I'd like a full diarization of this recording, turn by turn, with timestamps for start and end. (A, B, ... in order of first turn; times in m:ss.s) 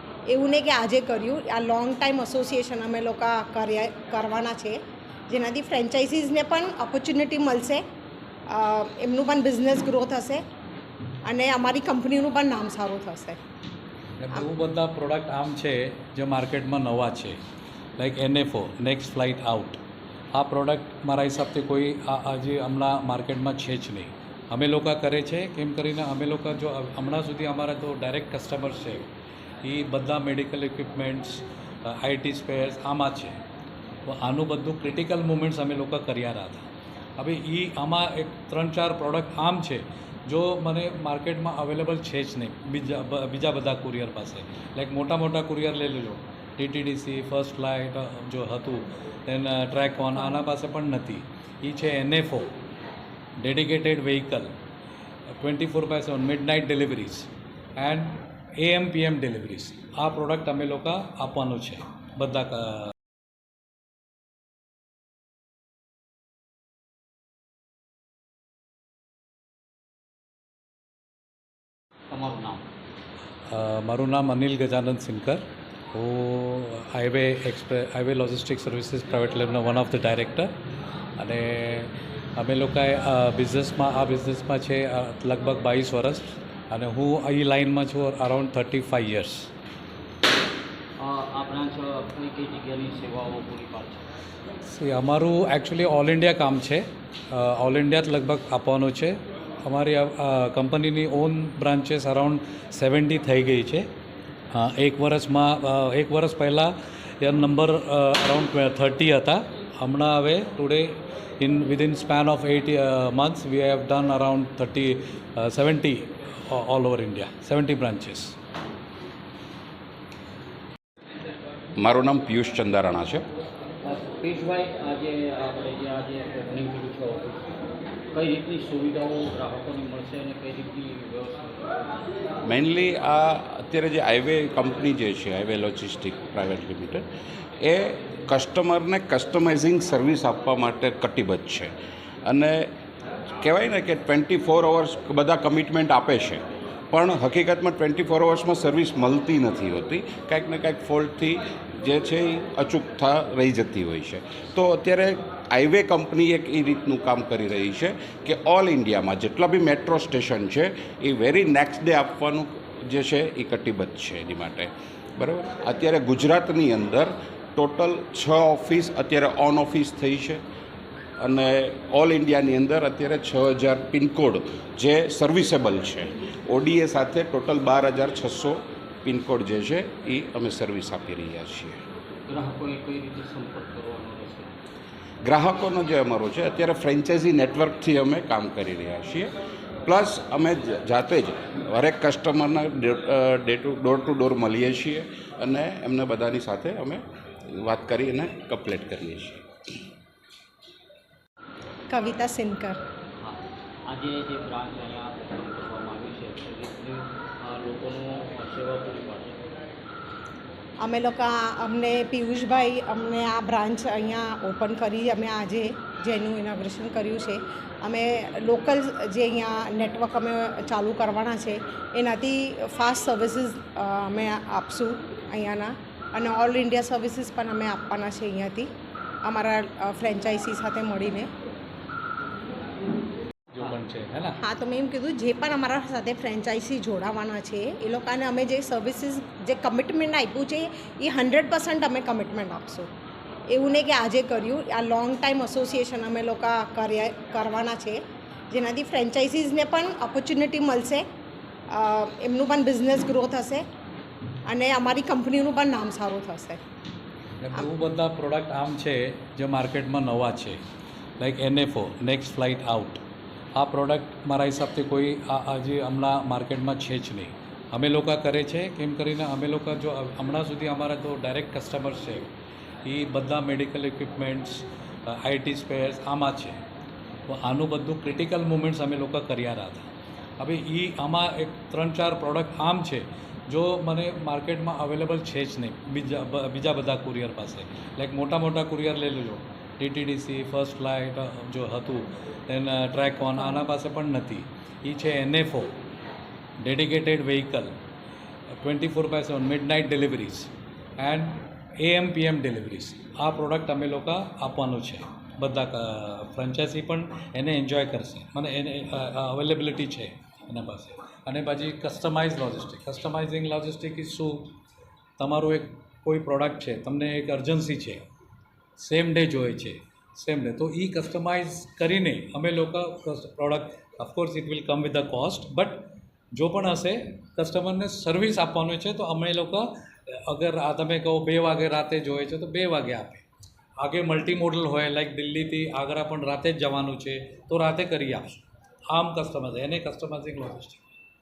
0:00.3-0:07.8 A
0:08.5-0:10.4 A
0:11.2-0:13.4 A
0:14.2-0:17.4 B
0:18.0-0:19.8 B
0:20.3-0:29.1 B
0:29.6-0:33.4 B
0:34.1-0:52.5 B
0:53.4-0:54.5 B
0:55.3-1:02.9 B
1:12.1-1:12.6 C
1:13.4-1:20.5 B
1:21.2-1:29.5 B
1:31.0-1:34.1 C
1:34.6-1:43.9 B
1:44.5-1:58.4 B
2:01.8-2:03.3 D
2:03.8-2:07.5 C
2:08.1-2:12.0 C
2:12.4-2:17.0 D
2:17.6-2:21.7 D
2:22.2-2:22.7 D
2:23.4-2:50.4 D
2:51.2-3:01.8 D
3:02.3-3:04.6 C
3:05.2-3:09.3 D
3:09.8-3:19.5 D
3:21.9-3:22.8 A
3:23.2-3:29.4 C
3:30.8-3:48.7 A
3:49.2-3:51.3 A
3:53.5-3:54.4 B
3:54.4-4:02.9 A
4:03.5-4:08.0 A
4:08.5-4:11.0 A
4:11.7-4:13.6 A
4:14.4-4:16.6 A
4:17.4-4:20.6 B
4:21.2-4:23.0 B
4:23.5-4:32.3 B
4:32.8-4:36.6 B
4:37.3-4:55.7 B
4:56.6-4:57.7 B
4:58.5-5:14.5 B
5:15.2-5:18.0 B
5:18.8-5:33.2 B
5:33.8-5:40.9 B